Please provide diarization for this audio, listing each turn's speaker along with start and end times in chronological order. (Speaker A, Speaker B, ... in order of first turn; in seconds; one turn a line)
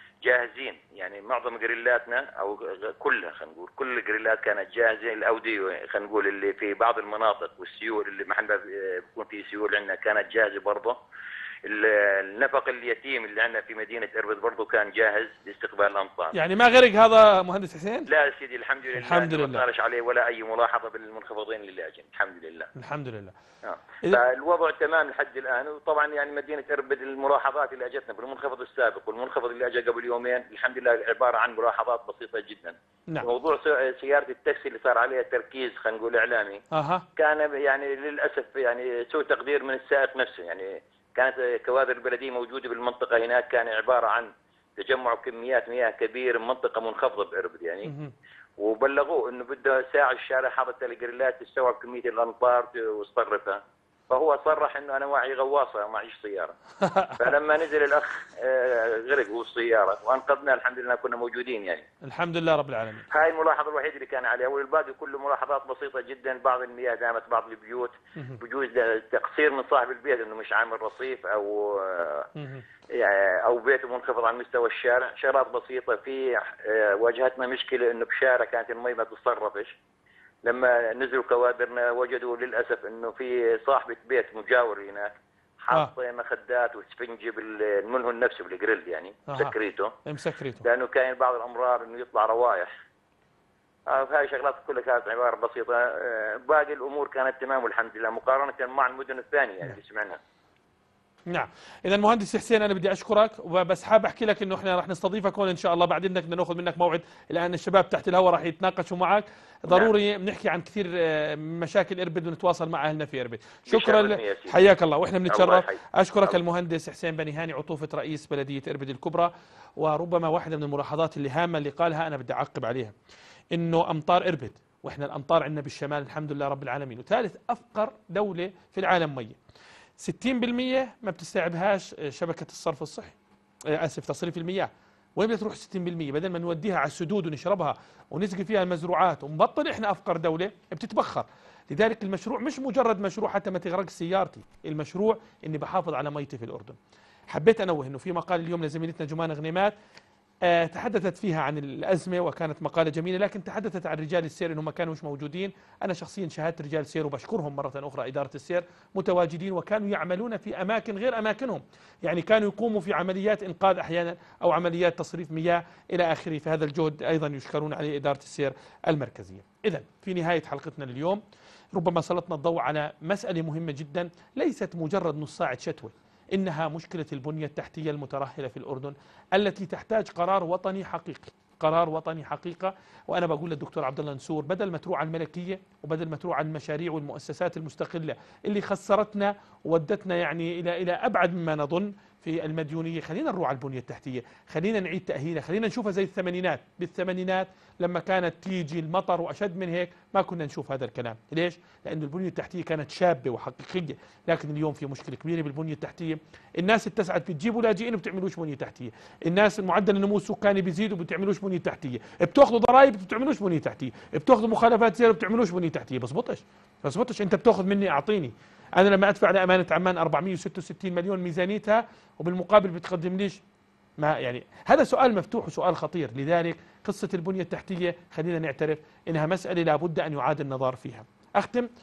Speaker A: 0.2-10.9
Speaker A: 11.7-16.3
Speaker B: 16.3-18.1
Speaker A: 18.1-22.7
Speaker B: 19.0-19.6
Speaker B: 22.8-23.3
Speaker A: 23.6-36.6
Speaker B: 36.7-37.0
Speaker A: 37.2-47.9
Speaker B: 47.9-48.1
Speaker A: 48.6-56.5
Speaker B: 56.9-57.3
Speaker A: 57.2-61.8
Speaker B: 62.0-63.0
Speaker A: 63.1-72.2
Speaker B: 72.4-72.6
Speaker A: 73.5-79.7
Speaker A: 80.4-89.9
Speaker B: 89.3-89.5
Speaker B: 90.1-90.6
Speaker A: 90.6-92.7
Speaker A: 93.9-100.2
Speaker B: 101.3-122.9
Speaker A: 113.7-114.7
Speaker A: 115.3-115.8
Speaker B: 123.5-129.4
Speaker B: 130.0-133.1
Speaker B: 133.7-146.8
Speaker B: 147.3-149.7
Speaker B: 150.4-171.2
Speaker B: 171.7-223.4
Speaker B: 224.0-231.7